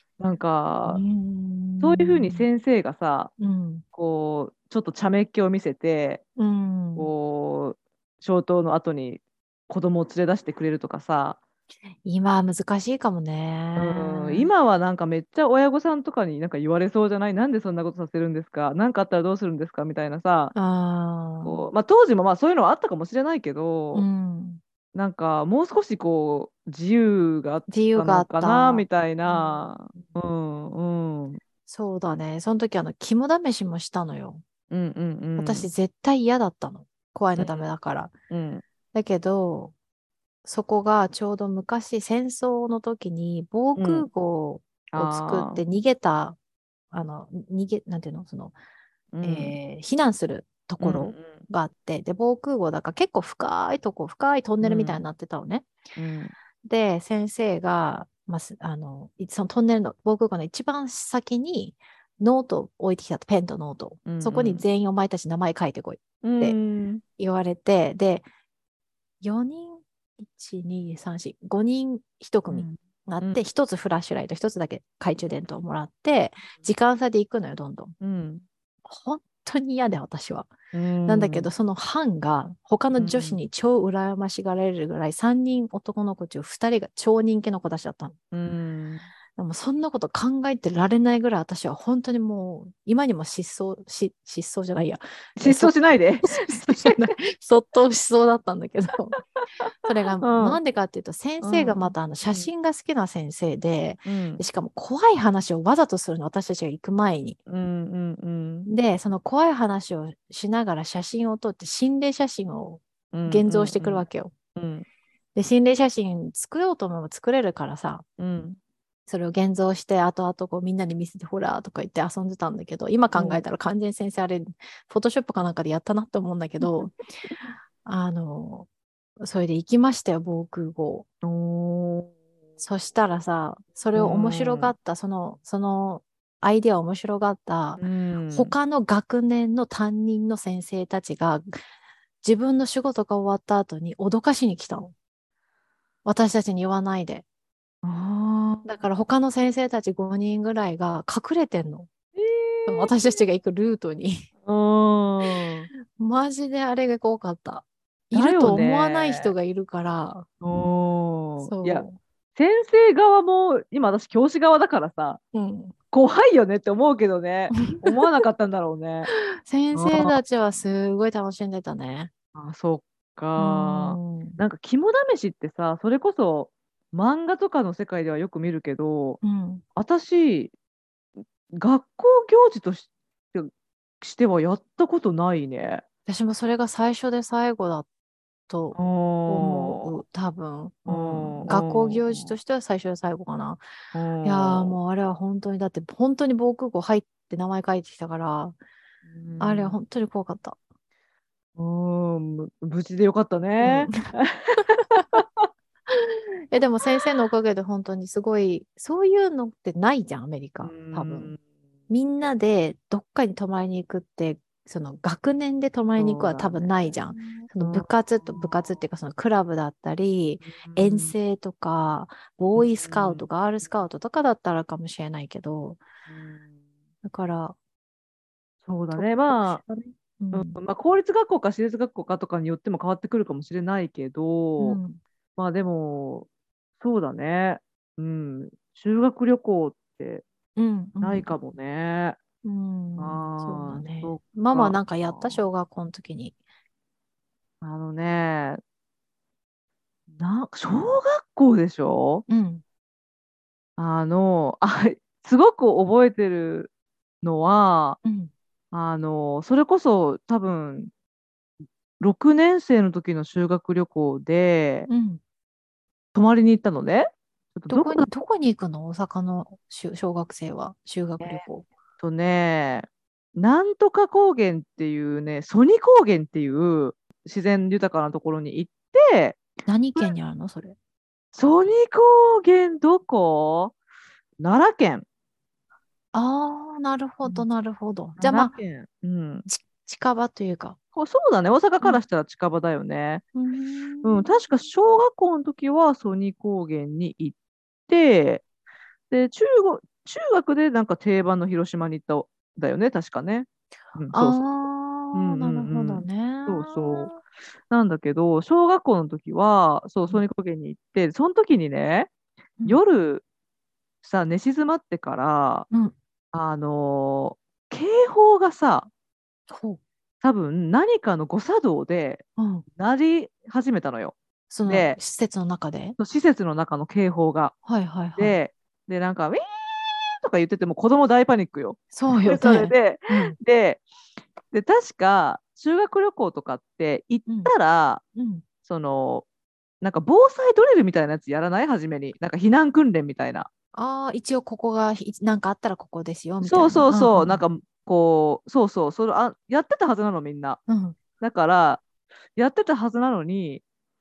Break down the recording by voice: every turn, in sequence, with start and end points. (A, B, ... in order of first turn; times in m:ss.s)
0:00.2-0:01.0 A
0:00.8-0:02.5 B
0:01.8-0:03.3 A
0:03.4-0:03.8 B
0:03.9-0:06.2 A
0:06.4-0:07.1 B
0:07.0-0:11.4 A
0:12.0-0:14.5 B
0:13.8-0:20.5 A
0:20.5-0:21.7 B
0:21.4-0:24.1 A
0:23.9-0:24.6 B
0:24.9-0:31.4 A
0:27.7-0:30.1 B
0:31.7-0:34.4 B
0:34.7-0:35.7 A
0:35.4-0:38.1 B
0:37.4-0:37.6 A
0:38.3-0:38.6 A
0:38.9-0:39.7 B
0:40.4-0:46.4 B
0:43.8-0:44.1 A
0:44.9-0:45.6 A
0:46.9-0:48.5 B
0:49.1-0:49.6 A
0:49.2-0:55.7 B
0:50.8-0:51.4 A
0:54.6-0:55.0 A
0:56.0-0:56.3 A
0:56.6-1:06.6 B
1:04.0-1:04.6 A
1:06.2-1:07.0 A
1:07.2-1:08.2 B
1:09.2-1:17.9 B
1:12.5-1:13.4 A
1:18.0-1:18.4 A
1:18.8-1:20.5 B
1:20.7-1:21.5 A
1:21.0-1:28.2 B
1:23.0-1:23.4 A
1:28.3-1:29.1 A
1:29.4-1:39.2 B
1:35.4-1:37.1 A
1:39.8-1:47.4 B
1:40.2-1:40.6 A
1:41.4-1:42.5 A
1:44.0-1:44.4 A
1:47.5-1:48.7 A
1:48.6-1:54.3 B
1:53.1-1:54.0 A
1:54.6-1:54.8 A
1:55.3-1:58.0 B
1:58.2-1:58.6 A
1:59.1-2:07.0 B
2:03.1-2:03.4 A
2:06.6-2:06.9 A
2:07.8-2:08.7 B
2:09.2-2:11.1 B
2:11.2-2:12.1 A
2:12.6-2:21.6 B
2:13.9-2:14.7 A
2:17.8-2:18.5 A
2:22.2-2:24.9 B
2:26.0-2:27.2 B
2:27.8-2:28.6 A
2:28.6-2:31.9 B
2:32.1-2:33.2 A
2:32.6-2:34.3 B
2:34.4-2:35.7 A
2:35.9-2:40.3 B
2:38.1-2:39.3 A
2:40.4-2:45.2 A
2:41.4-2:42.0 B
2:45.3-2:45.7 B
2:45.9-2:49.1 A
2:47.5-2:48.2 B
2:49.1-2:52.1 B
2:49.7-2:50.1 A
2:52.3-2:59.2 A
2:53.4-2:54.4 B
2:59.2-2:59.6 B
2:59.8-3:00.5 A
3:01.5-3:05.8 A
3:06.1-3:07.9 B
3:08.5-3:13.6 B
3:08.7-3:10.0 A
3:10.8-3:12.3 A
3:13.9-3:14.8 A
3:14.2-3:18.6 B
3:19.1-3:19.8 A
3:19.4-3:20.6 B
3:21.6-3:25.5 A
3:23.6-3:23.9 B
3:25.9-3:31.3 B
3:30.6-3:31.4 A
3:31.9-3:45.8 B
3:36.0-3:37.9 A
3:40.4-3:41.1 A
3:42.6-3:43.2 A
3:46.1-3:46.4 A
3:47.0-3:47.6 B
3:48.6-3:49.6 A
3:48.9-3:50.6 B
3:50.3-3:54.8 A
3:54.6-3:55.0 B
3:55.4-3:56.3 A
3:56.8-4:00.2 A
4:00.6-4:01.3 B
4:01.0-4:02.2 A
4:02.4-4:06.3 B
4:03.0-4:05.4 A
4:07.6-4:08.6 A
4:10.1-4:12.2 A
4:12.3-4:12.6 B
4:13.8-4:16.7 A
4:17.2-4:18.0 A
4:18.0-4:18.3 B
4:18.7-4:20.9 A
4:22.0-4:24.9 A
4:24.9-4:25.2 B
4:26.1-4:28.1 A
4:27.7-4:31.7 B
4:32.0-4:39.4 A
4:39.6-4:40.8 B
4:41.3-4:43.7 A
4:44.4-4:45.0 A
4:46.1-4:48.5 B
4:48.2-4:49.4 A
4:49.5-4:50.8 B
4:50.9-4:53.2 A
4:53.3-4:54.3 B
4:54.0-4:57.4 A
4:57.9-4:58.4 A
4:59.1-5:04.4 A
5:04.1-5:07.2 B
5:05.1-5:07.2 A
5:07.7-5:12.1 A
5:12.6-5:13.2 A
5:14.0-5:15.7 A
5:16.3-5:18.9 A
5:19.5-5:19.8 B
5:20.2-5:24.1 A
5:22.4-5:22.6 B
5:24.5-5:26.0 B
5:24.6-5:25.0 A
5:26.0-5:27.5 A
5:27.6-5:28.4 B
5:28.2-5:33.8 A
5:31.9-5:33.4 B
5:34.5-5:38.0 A
5:37.3-5:37.5 B
5:38.1-5:38.4 B
5:38.6-5:39.2 A
5:39.8-5:43.5 A
5:43.7-5:47.4 B
5:46.4-5:50.6 A
5:50.7-5:51.0 B
5:51.2-5:51.8 A
5:52.4-5:53.6 A